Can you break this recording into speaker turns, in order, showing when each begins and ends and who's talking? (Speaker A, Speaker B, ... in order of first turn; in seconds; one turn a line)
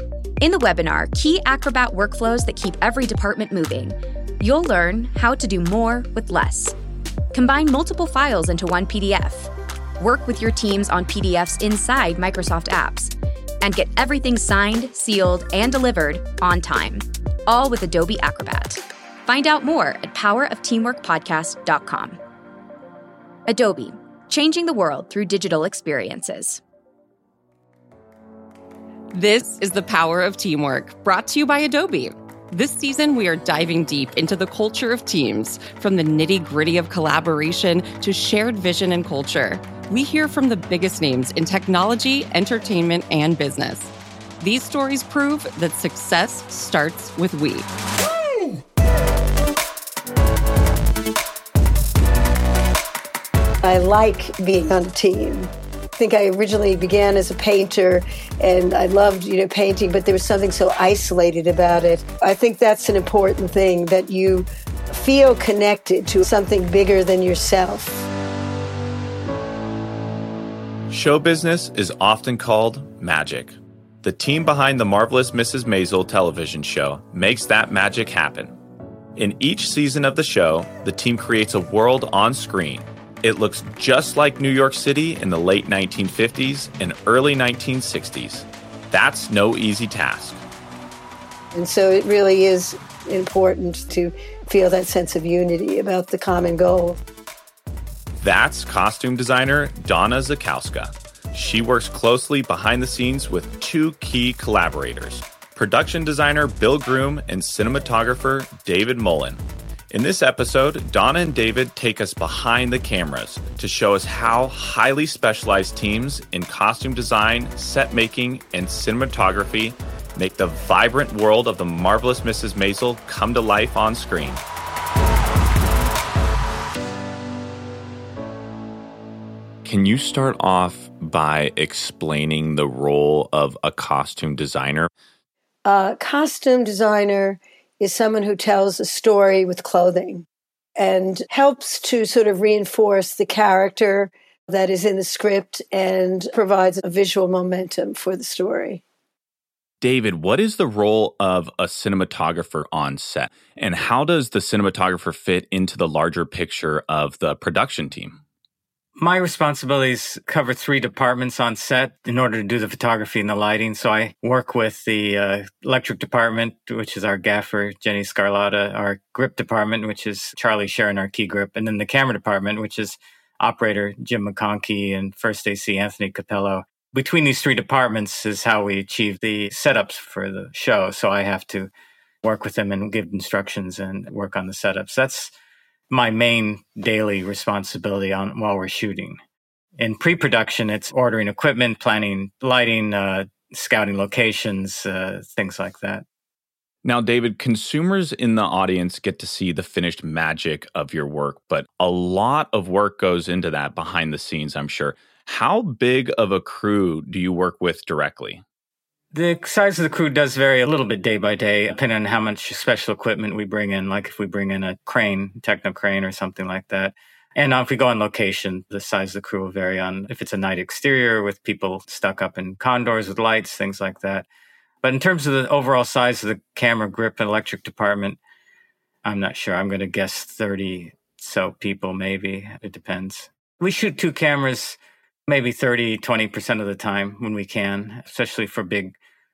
Speaker A: 0.4-6.8
Speaker A: 7.3-22.2
Speaker A: 23.5-26.6
Speaker B: 29.1-47.7
Speaker C: 53.6-68.1
Speaker D: 70.9-78.5
Speaker D: 79.2-90.4
Speaker C: 91.5-97.0
Speaker D: 98.2-124.4
Speaker D: 129.6-134.9
Speaker C: 135.6-140.2
Speaker C: 140.8-148.8
Speaker D: 149.8-158.2
Speaker E: 159.0-181.7
Speaker E: 182.2-185.3
Speaker E: 185.9-189.2
Speaker E: 189.8-196.0
Speaker D: 196.8-208.4
Speaker E: 209.1-224.2
Speaker E: 224.8-228.2
Speaker E: 229.0-238.9